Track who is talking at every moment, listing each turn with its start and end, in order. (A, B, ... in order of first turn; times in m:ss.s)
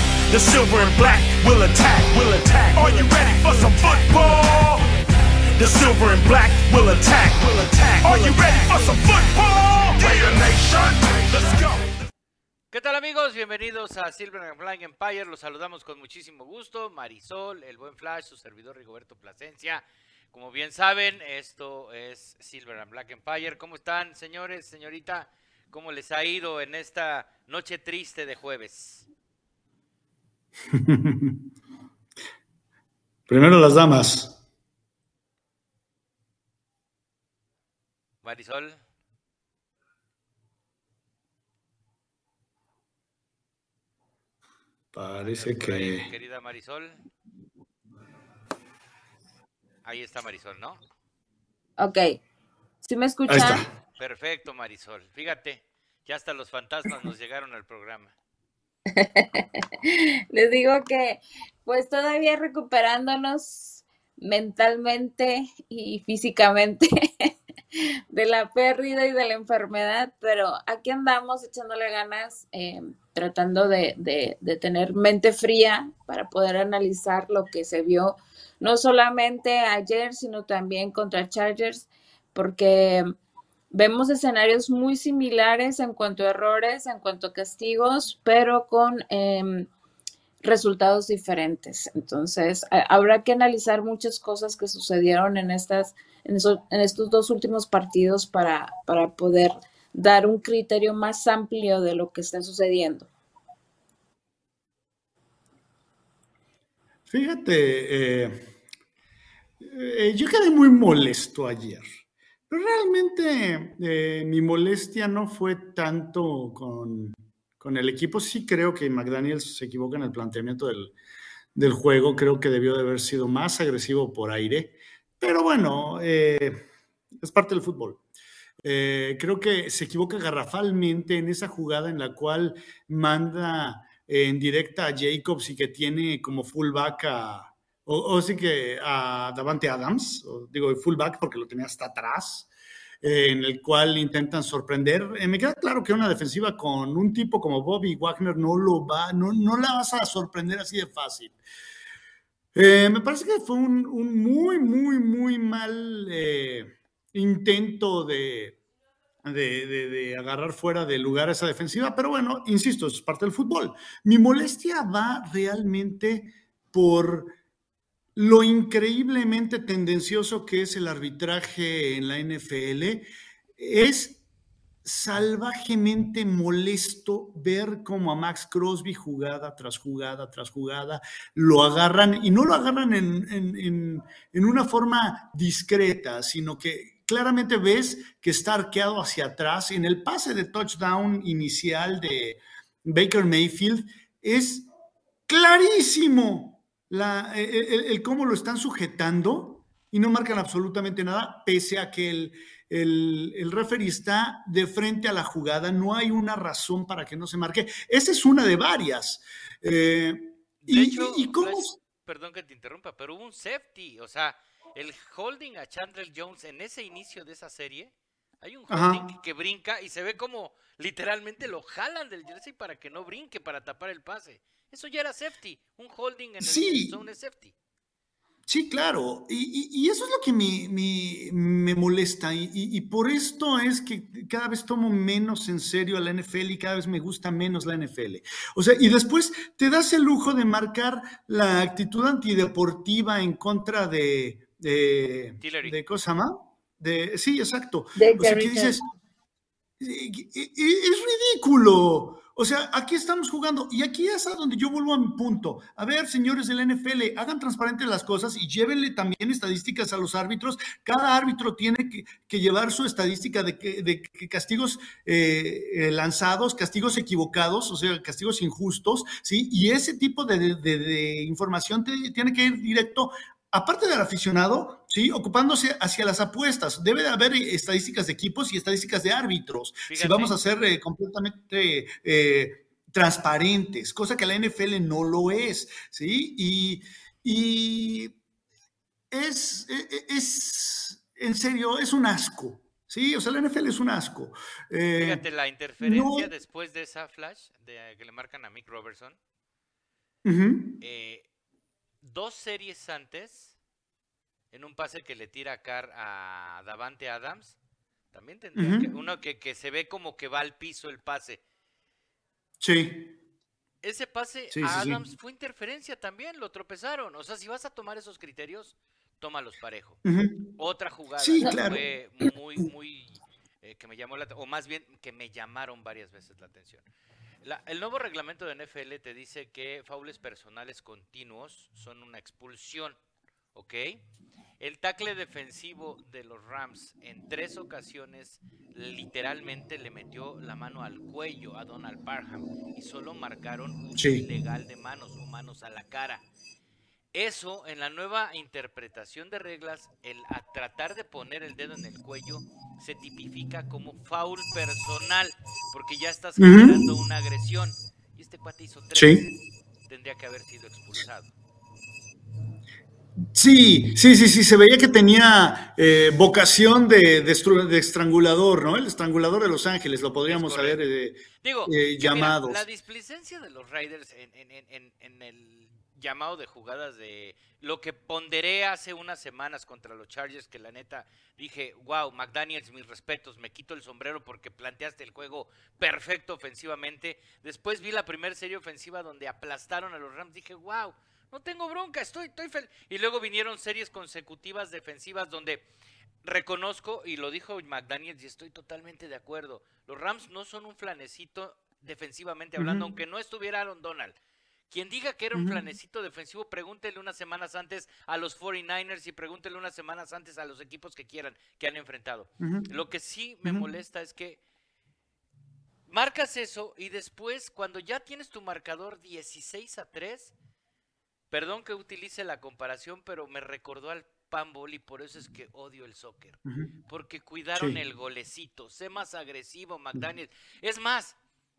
0:00.3-0:04.9 A
0:05.6-0:11.9 A
0:12.7-0:29.0 B
0:30.7-0:31.4 C
0:33.3-0:34.4 C
0:38.2-0:38.8 B
0:44.9-0:46.1 C
0:45.2-0:47.0 B
0:49.8-0:50.8 B
0:51.8-0:52.2 D
0:52.8-0:53.7 D
0:53.3-0:53.7 C
0:54.0-0:58.1 B
0:58.9-1:23.1 D
1:23.7-1:29.7 D
1:30.4-1:43.1 D
1:47.1-1:48.5 C
1:49.6-1:51.9 C
1:52.5-2:00.9 C
2:01.6-2:06.6 C
2:07.2-2:08.0 C
2:08.6-2:22.5 C
2:23.0-2:31.4 C
2:32.6-2:38.6 C
2:39.2-2:47.3 C
2:48.2-2:53.1 C
2:53.6-2:54.2 C
2:54.8-3:14.7 C
3:15.3-3:31.8 C
3:30.6-3:47.5 B
3:38.7-3:39.0 C
3:46.4-3:46.9 C
3:48.5-4:08.9 C
4:05.4-4:05.8 B
4:08.0-4:08.8 D
4:09.8-4:48.2 C
4:39.9-4:40.4 B
4:49.1-4:55.2 C
4:55.0-4:59.2 B
4:55.8-4:56.3 C
5:00.2-5:00.8 C
5:00.8-5:01.3 B
5:02.0-5:03.6 B
5:04.5-5:07.6 B
5:08.1-5:11.4 B
5:08.6-5:08.9 C
5:12.6-5:13.1 C
5:13.8-5:20.0 B
5:14.5-5:15.0 C
5:20.0-5:20.5 C
5:20.6-5:26.8 B
5:21.2-5:21.8 C
5:27.4-5:33.0 B
5:33.5-5:34.0 B
5:34.6-5:46.2 B
5:44.0-5:44.2 C
5:47.1-5:59.3 B
5:56.4-5:56.9 C
5:59.0-5:59.2 C
5:59.9-6:01.3 B
6:03.3-6:12.6 C
6:10.3-6:10.8 B
6:11.4-6:35.6 B
6:36.2-6:44.2 B
6:42.6-6:42.9 C
6:44.7-6:54.4 B
6:45.4-6:45.6 C
6:52.4-6:52.7 C
6:55.9-7:00.3 B
7:01.3-7:11.2 B